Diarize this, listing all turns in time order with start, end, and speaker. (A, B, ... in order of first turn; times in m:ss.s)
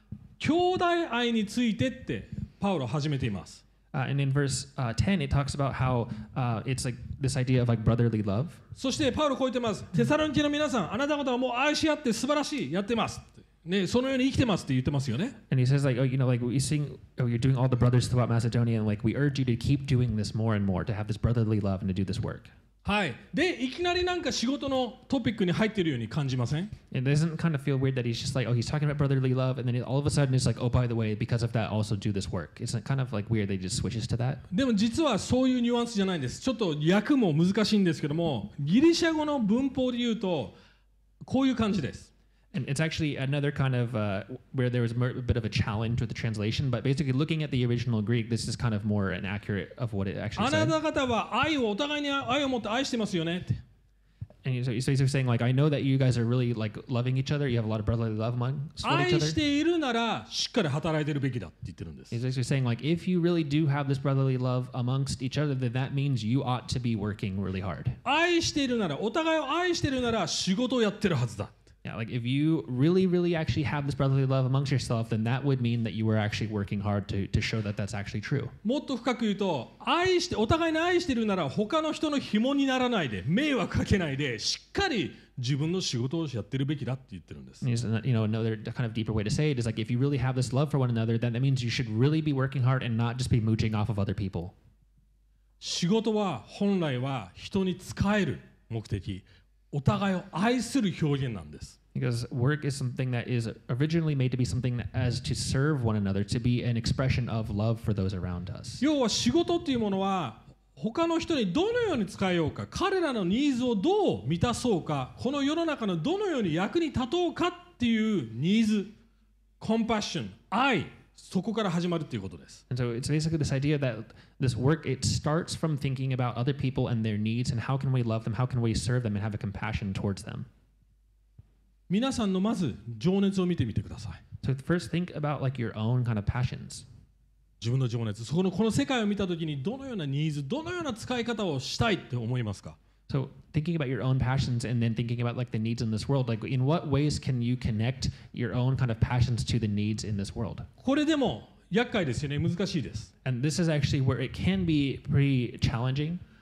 0:00.4-0:03.6 A
0:03.9-0:08.6 B
0:08.8-0:15.3 A
0:15.5-0:22.5 B
0:22.8-0:26.7 A
0:26.9-0:34.4 B
0:34.5-0:40.5 A
0:41.2-0:42.1 A
0:42.5-0:50.7 B
0:50.4-0:53.6 A
0:54.4-0:59.4 B
0:58.8-1:02.2 A
1:02.1-1:08.0 B
1:08.0-1:11.6 A
1:11.8-1:18.5 B
1:18.6-1:27.6 A
1:27.6-1:34.5 B
1:35.6-1:41.8 A
1:41.9-1:48.8 B
1:48.8-1:58.9 A
1:59.6-2:02.6 A
2:02.7-2:10.5 B
2:11.9-2:14.2 A
2:14.4-2:16.8 B
2:17.6-2:22.8 A
2:23.1-2:30.7 B
2:30.8-2:33.1 A
2:33.2-2:36.2 B